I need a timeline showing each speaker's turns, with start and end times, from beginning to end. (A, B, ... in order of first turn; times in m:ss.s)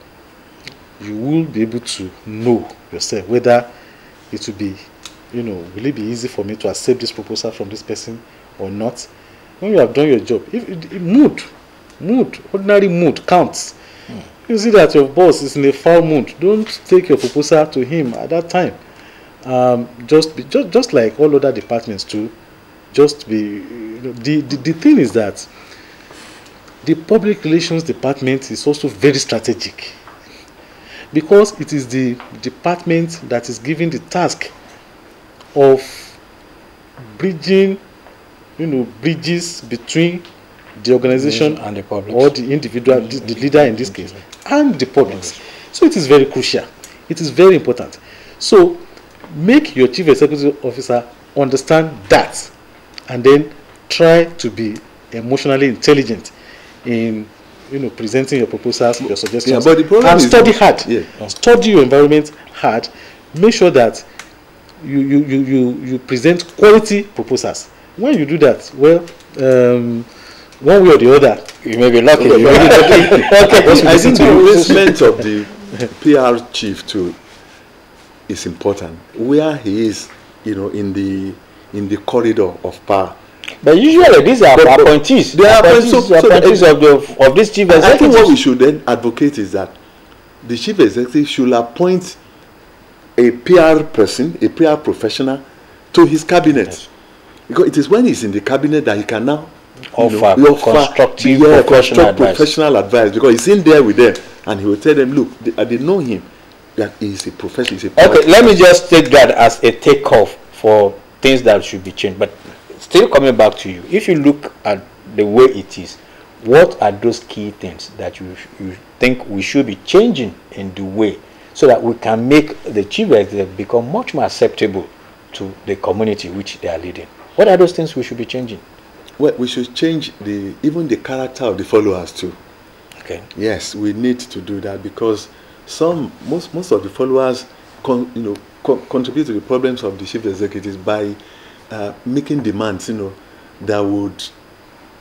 0:01.0-0:03.7 A
0:04.3-0:04.8 A
0:05.3-0:09.1 A
0:09.6-0:11.5 A
0:12.0-0:13.8 A
0:14.5-0:18.8 A
0:19.4-0:22.3 A
0:22.9-0:25.5 A
0:26.8-0:30.0 A
0:31.1-0:34.5 A
0:35.6-0:36.2 A
0:37.1-0:37.8 A
0:38.6-0:40.3 A
0:40.8-0:52.5 A
0:41.1-0:42.3 B
0:43.0-0:44.1 B
0:53.1-0:56.3 A
0:56.8-1:04.1 A
0:59.4-1:01.2 C
1:04.8-1:10.1 A
1:10.6-1:11.5 A
1:11.6-1:14.9 B
1:12.2-1:17.2 C
1:12.3-1:14.8 A
1:18.3-1:23.2 C
1:23.6-1:28.4 B
1:24.5-1:26.7 C
1:27.7-1:29.8 C
1:30.4-1:32.2 C
1:33.2-1:36.8 C
1:37.5-1:48.6 C
1:40.0-1:42.5 B
1:48.0-2:08.6 B
2:09.2-2:12.4 C
2:13.0-2:13.3 B
2:13.4-2:21.2 C
2:21.7-2:24.3 C